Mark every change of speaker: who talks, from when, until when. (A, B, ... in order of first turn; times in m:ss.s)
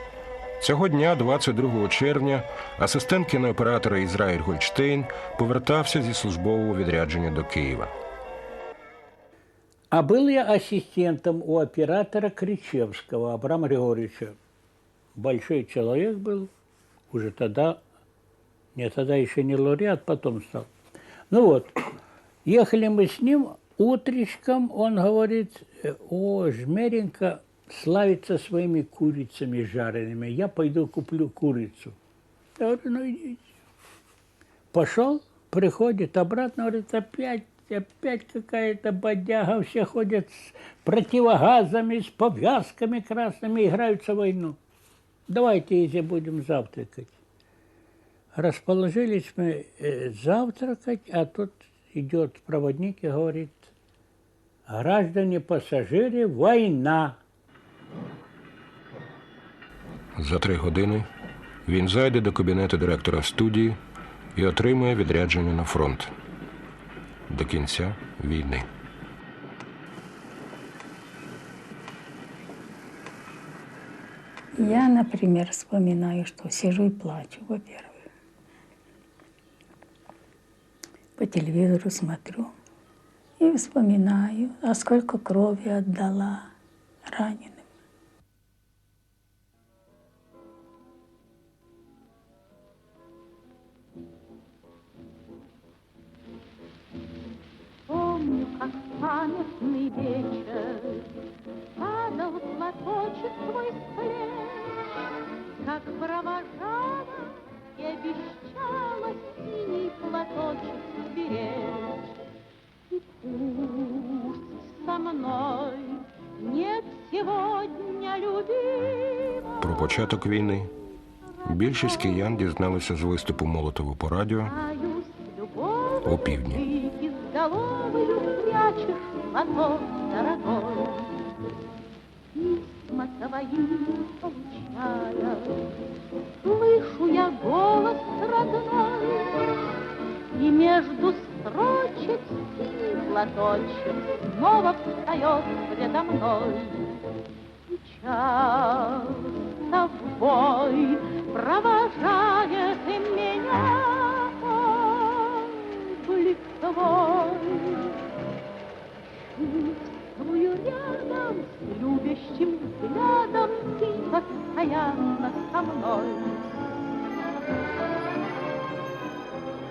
0:00.6-0:07.9 A
0:09.9-0:14.3 B
0:15.2-0:16.5 B
0:17.1-0:17.8 B
0:18.8-0:20.7 B
0:21.3-0:21.8 B
0:22.4-0:31.9 B
0:32.6-0:33.4 B
0:34.7-0:44.6 B
0:45.3-0:47.2 B
0:48.3-0:53.7 B
0:54.7-0:57.2 B
1:00.2-1:01.1 A
1:01.6-1:03.8 A
1:04.3-1:06.1 A
1:07.3-1:08.7 A
1:14.5-1:18.0 C
1:21.2-1:22.5 C
1:23.4-1:26.5 C
1:27.1-1:27.6 C
1:37.9-1:41.1 D
1:41.8-1:45.0 D
1:45.6-1:52.1 D
1:52.9-1:59.9 D
1:59.6-2:00.7 A
2:01.4-2:04.5 A
2:01.5-2:02.3 D
2:04.4-2:11.2 D
2:06.0-2:06.6 A
2:12.3-2:15.7 D
2:16.4-2:19.6 D
2:20.3-2:27.0 D
2:27.7-2:38.0 D
2:39.1-2:46.5 D